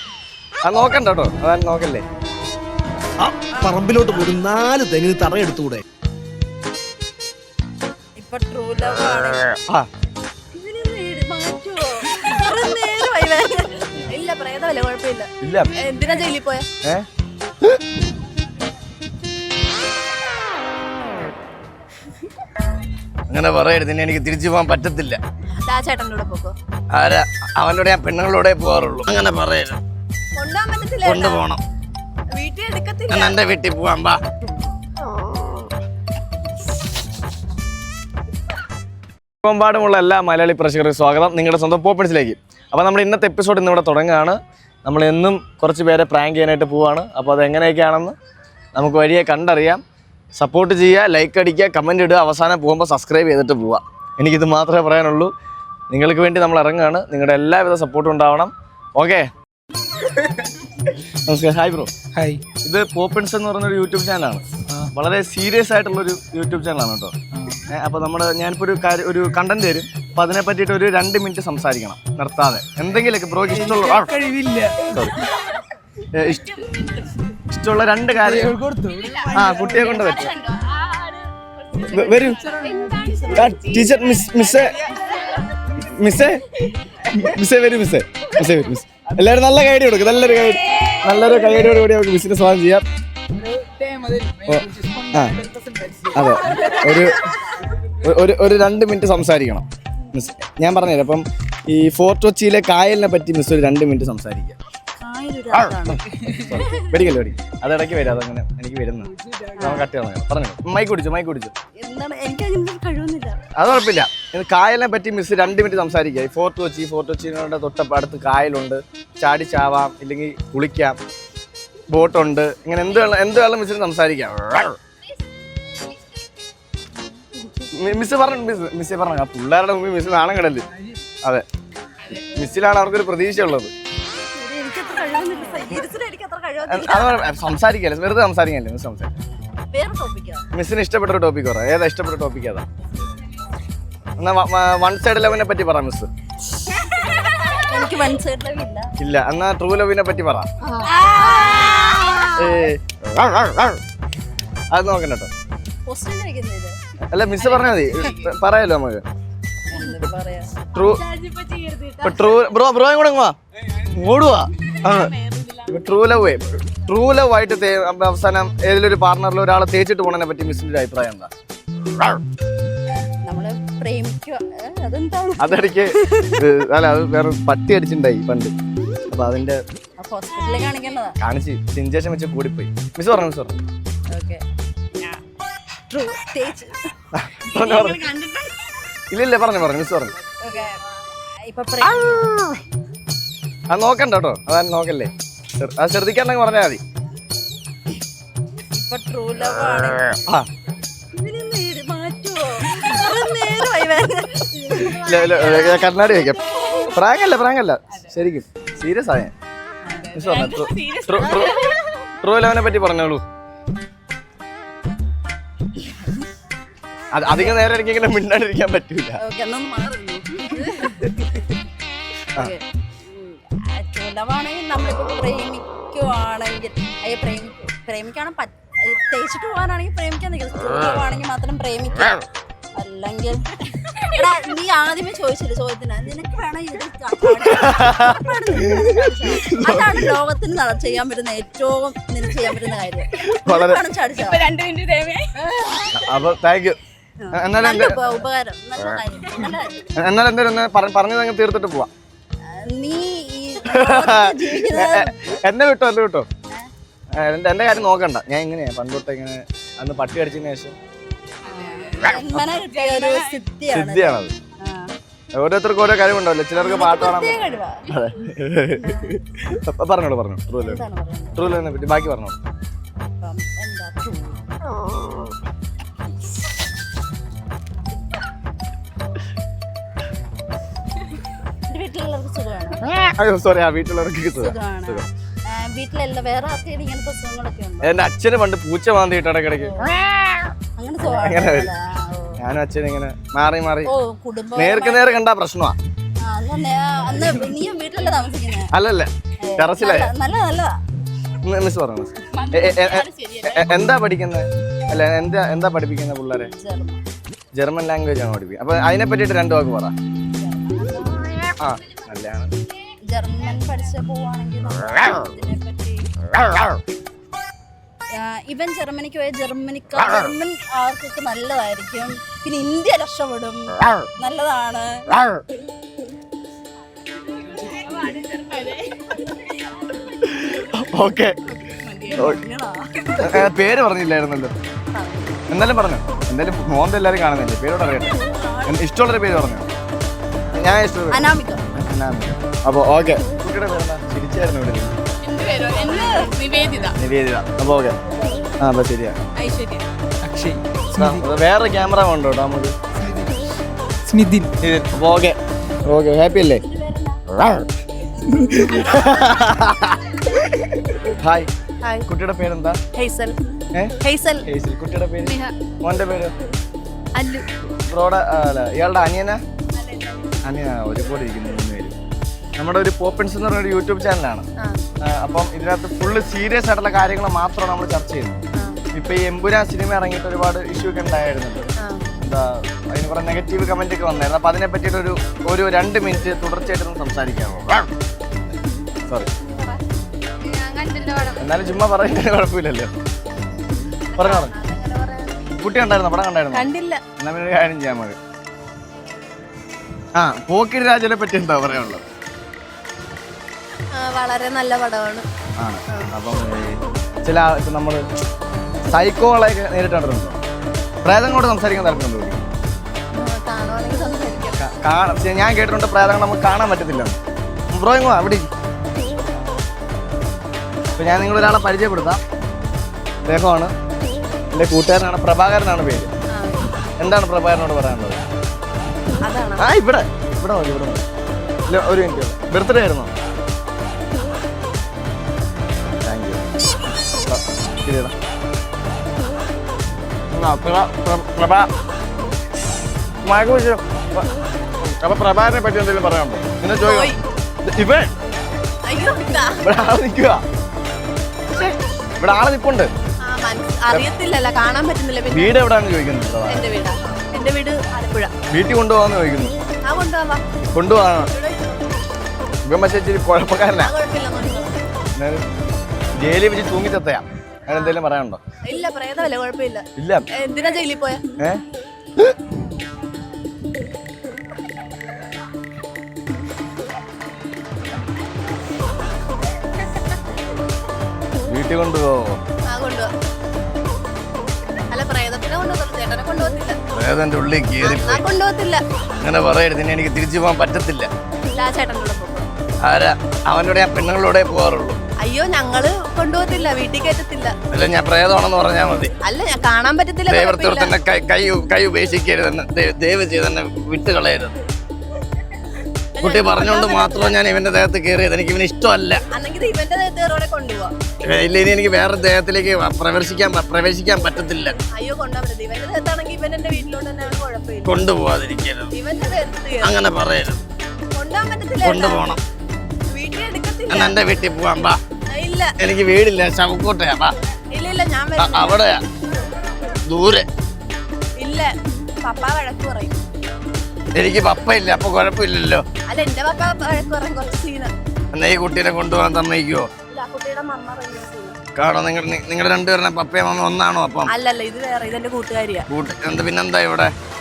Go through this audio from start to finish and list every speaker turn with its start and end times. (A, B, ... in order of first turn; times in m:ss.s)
0:00.6-0:02.0 A
0:03.6-0:05.8 B
0:08.2-0:09.6 C
0:10.5-0:14.0 C
0:14.0-0:16.7 D
0:15.4-0:15.8 A
0:23.3-0:25.2 A
0:25.6-0:26.6 D
0:26.9-0:29.8 A
0:30.4-0:31.5 D
0:31.0-0:31.6 A
0:32.3-0:33.4 D
0:33.1-0:34.2 A
0:39.4-0:48.2 A
0:48.8-0:49.8 A
0:50.4-0:55.3 A
0:55.9-0:59.3 A
1:01.2-1:01.9 A
1:02.6-1:07.1 A
1:07.7-1:14.1 A
1:13.6-1:15.0 B
1:14.0-1:14.8 E
1:14.9-1:15.2 A
1:16.1-1:16.6 A
1:16.7-1:17.0 E
1:17.5-1:18.6 A
1:18.3-1:24.4 E
1:19.3-1:20.4 A
1:21.8-1:22.4 A
1:22.9-1:23.2 C
1:23.3-1:24.8 A
1:25.8-1:32.8 A
1:33.6-1:36.1 E
1:34.4-1:35.4 A
1:36.1-1:37.2 A
1:38.0-1:44.6 A
1:45.0-1:46.8 C
1:45.7-1:51.5 A
1:49.6-1:49.9 C
1:51.8-1:53.4 C
1:53.6-2:01.0 A
2:01.9-2:04.8 A
2:07.7-2:10.6 A
2:12.1-2:13.7 A
2:14.3-2:17.3 C
2:16.6-2:19.1 A
2:19.7-2:20.4 C
2:20.5-2:22.6 A
2:24.2-2:26.1 A
2:26.7-2:28.9 C
2:29.0-2:30.5 A
2:30.8-2:32.3 C
2:31.9-2:32.2 E
2:32.4-2:33.8 A
2:34.7-2:35.3 A
2:35.8-2:36.8 C
2:37.1-2:39.0 A
2:39.7-2:40.6 C
2:40.7-2:41.0 A
2:41.2-2:41.9 E
2:42.0-2:45.1 A
2:45.2-2:45.6 E
2:45.7-2:51.3 A
2:53.1-2:56.4 C
2:55.4-2:58.5 A
2:59.1-2:59.6 A
3:00.0-3:01.2 C
3:01.2-3:03.6 A
3:04.1-3:04.4 C
3:05.9-3:06.8 C
3:07.1-3:08.1 A
3:07.5-3:08.6 D
3:09.1-3:10.1 A
3:10.4-3:10.8 C
3:11.4-3:12.5 C
3:13.7-3:16.8 A
3:18.7-3:20.2 C
3:21.1-3:26.8 C
3:24.9-3:29.3 A
3:29.9-3:30.2 C
3:30.0-3:31.2 E
3:30.1-3:31.6 A
3:31.3-3:31.8 C
3:32.2-3:33.2 A
3:37.1-3:39.2 A
3:37.3-3:37.6 C
3:39.2-3:41.4 C
3:42.4-3:52.2 C
3:52.7-4:04.5 C
3:57.4-4:00.1 A
4:03.1-4:03.8 A
4:04.3-4:05.3 E
4:05.4-4:05.9 C
4:05.9-4:06.8 A
4:07.2-4:09.9 C
4:07.3-4:08.0 A
4:10.0-4:11.9 A
4:12.5-4:15.2 C
4:13.6-4:16.3 A
4:17.2-4:20.8 A
4:21.4-4:24.9 C
4:21.5-4:22.1 E
4:22.7-4:23.3 E
4:23.7-4:24.3 A
4:25.3-4:30.8 A
4:26.6-4:28.0 C
4:30.6-4:31.5 C
4:31.3-4:32.4 A
4:33.2-4:34.4 C
4:41.7-4:42.9 C
4:42.9-4:45.0 A
4:44.4-4:48.0 C
4:47.8-4:49.9 A
4:49.6-4:49.9 C
4:50.8-4:52.4 C
4:51.0-4:51.7 A
4:52.4-4:53.9 A
4:53.8-4:55.2 C
4:54.5-4:55.8 A
4:56.2-4:58.7 C
4:58.7-5:00.1 A
4:59.4-5:00.7 C
5:01.4-5:06.5 A
5:02.3-5:03.6 E
5:06.4-5:07.0 C
5:07.6-5:09.9 A
5:10.3-5:11.5 C
5:11.6-5:12.5 A
5:13.1-5:16.1 C
5:18.2-5:25.2 C
5:27.4-5:29.0 E
5:30.2-5:31.4 A
5:31.8-5:33.5 C
5:33.2-5:34.5 A
5:35.0-5:35.4 C
5:35.5-5:38.1 A
5:37.9-5:38.8 C
5:38.6-5:39.7 A
5:40.5-5:45.0 A
5:41.1-5:41.6 C
5:45.2-5:47.0 E
5:45.5-5:46.9 C
5:47.0-5:47.9 A
5:48.1-5:48.5 C
5:48.6-5:49.2 A
5:49.4-5:50.6 E
5:50.3-5:51.2 B
5:51.0-5:52.7 A
5:53.0-5:53.4 B
5:54.0-5:54.5 B
5:54.6-5:56.6 A
5:56.6-5:57.2 C
5:58.3-6:00.2 A
6:01.1-6:01.5 A
6:02.0-6:02.8 A
6:02.9-6:03.4 D
6:03.7-6:06.3 A
6:04.0-6:04.4 D
6:05.2-6:05.5 E
6:07.2-6:07.5 D
6:07.8-6:09.4 A
6:09.8-6:10.3 D
6:10.4-6:12.0 A
6:12.6-6:14.4 A
6:15.0-6:18.3 A
6:18.5-6:18.8 D
6:18.9-6:21.7 A
6:21.8-6:22.1 D
6:22.2-6:27.9 A
6:29.4-6:29.8 D
6:30.5-6:31.4 D
6:31.4-6:32.9 A
6:34.1-6:35.5 D
6:34.2-6:34.5 A
6:35.6-6:38.2 A
6:36.5-6:37.0 D
6:40.2-6:42.0 A
6:43.9-6:45.2 D
6:45.6-6:48.0 A
6:48.9-6:50.4 A
6:51.0-6:52.4 A
6:53.1-6:54.6 D
6:54.6-6:57.2 A
6:57.7-6:58.5 A
7:01.0-7:02.2 A
7:03.2-7:03.7 A
7:04.5-7:06.1 A
7:06.3-7:06.7 D
7:07.0-7:08.2 A
7:09.2-7:09.6 D
7:09.6-7:11.0 A
7:11.7-7:13.1 A
7:16.0-7:16.4 A
7:17.2-7:18.1 A
7:20.3-7:21.7 A
7:23.2-7:24.3 A
7:24.8-7:28.2 A
7:26.8-7:27.2 D
7:28.9-7:29.6 D
7:29.6-7:30.4 A
7:31.5-7:32.9 A
7:33.2-7:35.6 D
7:35.3-7:36.6 A
7:36.5-7:38.3 D
7:38.5-7:39.5 A
7:39.9-7:40.4 D
7:40.7-7:41.3 A
7:41.3-7:41.8 D
7:42.6-7:43.9 A
7:43.8-7:44.8 D
7:45.2-7:45.4 A
7:46.2-7:48.4 A
7:47.7-7:48.0 D
7:48.7-7:49.8 D
7:50.0-7:50.2 A
7:50.4-7:51.2 D
8:01.4-8:02.4 A
8:02.6-8:03.1 D
8:04.9-8:06.8 D
8:06.9-8:08.2 A
8:07.8-8:08.8 D
8:09.2-8:11.1 A
8:11.5-8:12.5 D
8:12.8-8:15.0 A
8:15.2-8:17.6 D
8:17.7-8:19.1 A
8:19.2-8:20.9 D
8:20.3-8:24.6 A
8:26.2-8:27.4 D
8:26.2-8:29.2 A
8:29.3-8:30.9 D
8:31.2-8:34.8 A
8:34.9-8:38.0 D
8:37.8-8:38.9 A
8:38.9-8:40.0 D
8:39.8-8:40.6 A
8:41.2-8:42.3 D
8:41.8-8:42.4 A
8:43.1-8:44.2 D
8:43.9-8:45.0 A
8:45.3-8:45.7 D
8:45.8-8:47.3 A
8:47.7-8:48.8 D
8:48.4-8:49.0 A
8:50.1-8:50.4 A
8:51.4-8:53.2 D
8:54.1-8:55.8 A
8:56.1-8:57.9 D
8:58.3-8:59.9 A
9:00.1-9:01.6 D
9:01.7-9:04.3 A
9:04.3-9:05.9 D
9:05.9-9:07.1 A